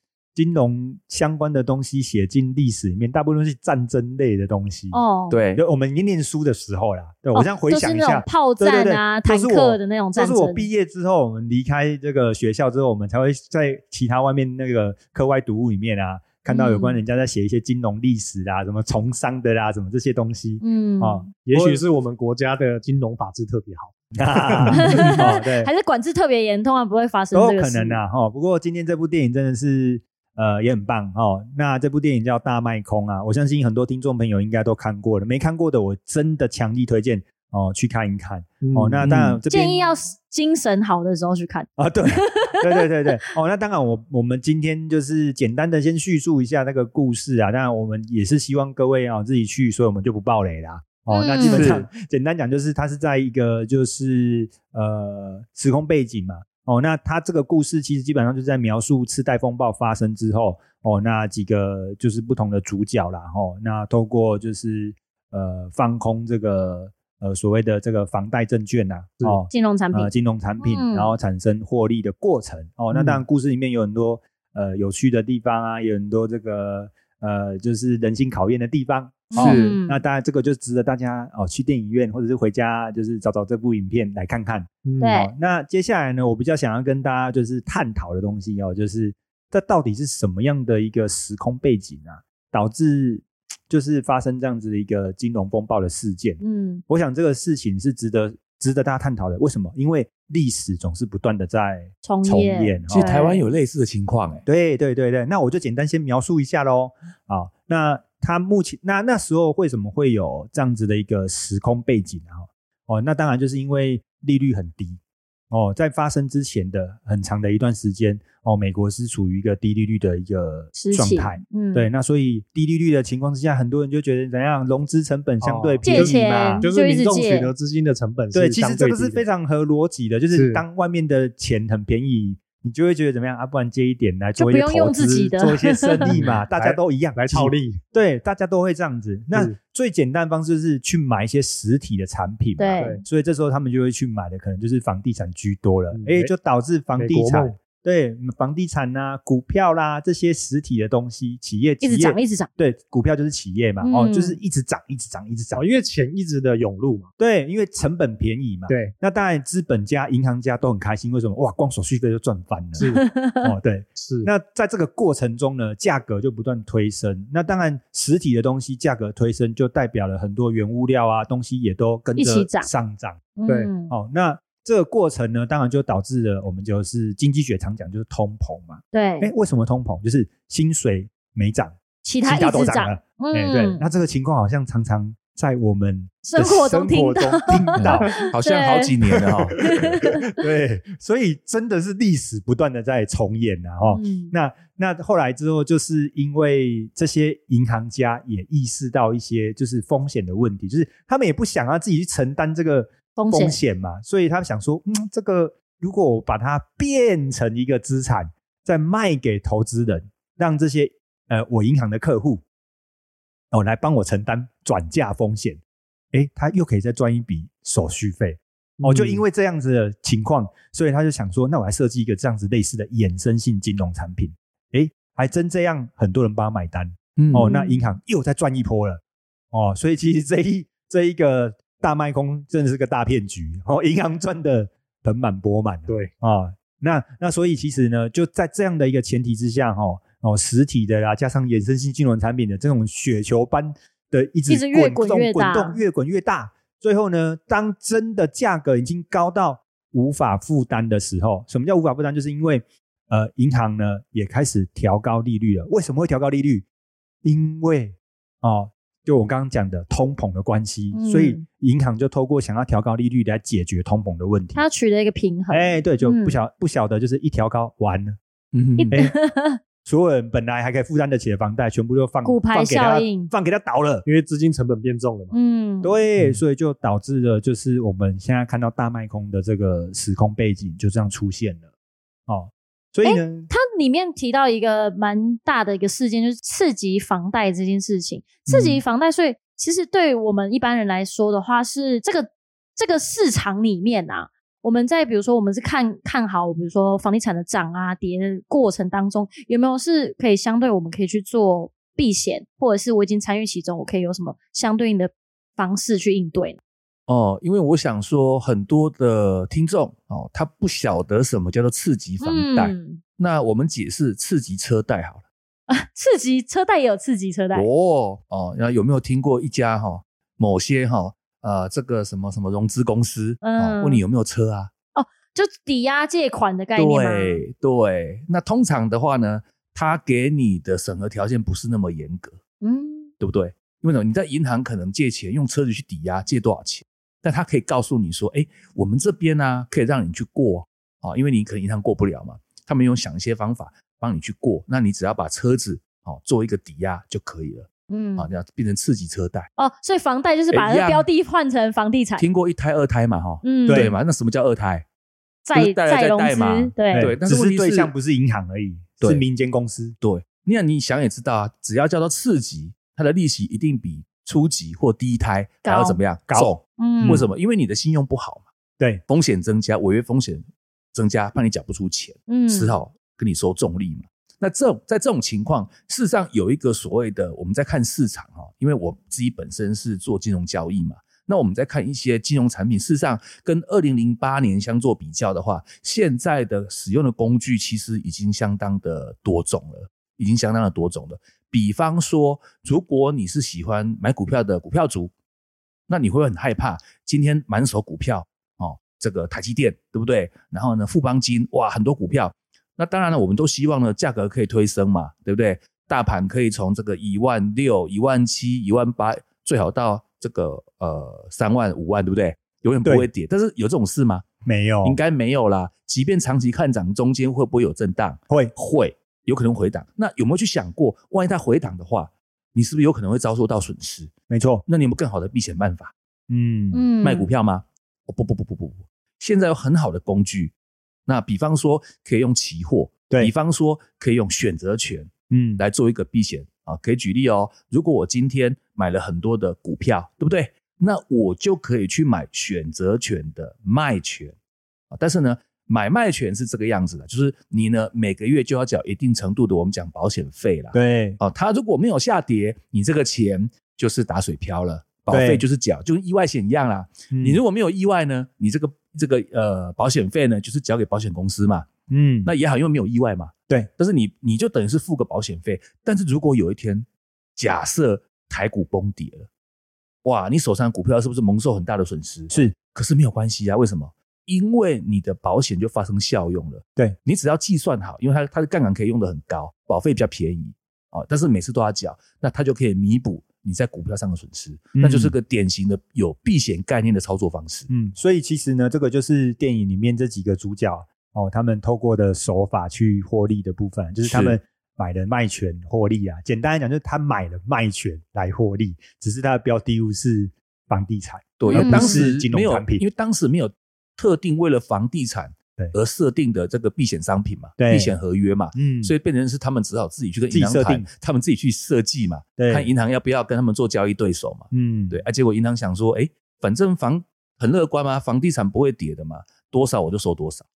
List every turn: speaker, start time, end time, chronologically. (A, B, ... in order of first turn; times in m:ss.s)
0:00.3-0:05.0 A
0:04.9-0:05.4 B
0:05.3-0:05.6 C
0:05.5-0:21.8 A
0:07.3-0:10.7 B
0:16.5-0:17.0 B
0:20.6-0:21.3 B
0:21.4-0:24.8 D
0:24.1-0:25.7 A
0:24.8-0:28.0 B
0:27.3-0:39.8 A
0:38.6-0:39.1 D
0:39.0-0:39.4 C
0:39.5-0:42.5 B
0:41.8-1:43.1 A
0:51.1-0:51.8 B
0:51.4-0:51.9 C
1:09.5-1:11.1 B
1:12.9-1:13.2 D
1:19.3-1:20.0 B
1:19.4-1:19.8 C
1:24.8-1:25.1 D
1:25.0-1:25.3 B
1:36.4-1:36.8 B
1:42.0-1:43.4 B
1:42.9-1:44.4 C
1:44.4-1:55.0 A
1:55.5-2:06.7 A
2:00.7-2:01.9 B
2:05.4-2:09.2 D
2:05.8-2:07.5 B
2:08.3-2:35.6 A
2:10.3-2:10.6 D
2:14.4-2:16.2 B
2:16.0-2:17.8 D
2:22.6-2:23.0 B
2:25.9-2:26.3 D
2:27.0-2:27.6 D
2:31.8-2:32.5 B
2:33.8-2:34.4 B
2:35.5-2:37.1 D
2:37.2-2:42.9 A
2:38.7-2:38.9 D
2:42.8-2:43.0 D
2:42.8-2:43.5 B
2:43.4-2:53.2 A
2:44.0-2:44.3 D
2:52.2-2:52.7 B
2:53.4-2:53.9 B
2:53.9-3:08.2 A
2:58.9-2:59.3 B
3:02.0-3:03.8 B
3:06.2-3:09.0 B
3:07.8-3:10.0 C
3:09.5-3:10.3 B
3:09.8-3:32.4 A
3:13.8-3:14.3 B
3:23.2-3:23.6 B
3:33.5-3:35.6 A
3:36.1-3:49.0 A
3:38.8-3:39.2 D
3:47.2-3:47.5 C
3:47.4-3:47.9 B
3:49.5-4:16.6 A
4:04.5-4:05.8 B
4:17.2-4:24.6 A
4:20.9-4:21.4 B
4:24.5-4:26.4 B
4:25.5-4:28.2 A
4:28.5-4:29.0 C
4:28.8-4:29.6 B
4:29.8-4:34.0 A
4:32.2-4:33.3 B
4:34.0-4:35.3 D
4:35.3-4:35.9 B
4:35.8-4:41.6 A
4:42.3-4:43.5 A
4:43.0-5:06.6 B
5:07.1-5:15.2 C
5:12.2-5:13.0 B
5:15.7-5:17.7 B
5:17.5-5:24.7 C
5:23.4-5:24.0 B
5:24.9-5:27.4 B
5:26.8-5:32.4 C
5:32.6-5:33.1 B
5:33.2-5:49.5 C
5:47.9-5:48.3 B
5:49.6-5:52.2 B
5:50.5-5:51.1 C
5:52.2-5:54.8 C
5:53.4-5:53.9 B
5:53.6-5:53.9 A
5:55.4-5:57.1 B
5:55.5-5:57.9 C
5:56.9-6:00.0 A
6:00.0-6:08.5 C
6:05.6-6:06.0 B
6:06.3-6:07.2 A
6:06.8-6:07.2 B
6:09.1-6:35.1 C
6:12.3-6:12.8 B
6:35.9-6:54.2 C
6:52.8-6:53.1 A
6:54.4-6:55.0 A
6:54.8-7:04.1 C
7:04.3-7:04.6 A
7:04.6-7:05.9 C
7:06.3-7:06.8 A
7:06.7-7:07.3 B
7:07.0-7:10.5 C
7:11.0-7:24.3 C
7:15.3-7:15.6 A
7:24.9-7:41.7 C
7:30.7-7:31.2 A
7:35.1-7:35.4 A
7:37.1-7:37.4 A
7:41.9-7:42.3 A
7:42.2-7:46.8 C
7:47.4-7:49.3 C
7:50.0-8:07.7 C
8:04.8-8:05.1 A
8:07.7-8:22.8 A
8:14.0-8:14.4 C
8:21.4-8:40.5 C
8:21.5-8:22.0 B
8:27.6-8:27.9 A
8:28.5-8:28.9 A
8:30.3-8:30.9 A
8:32.4-8:32.7 A
8:34.5-8:35.0 A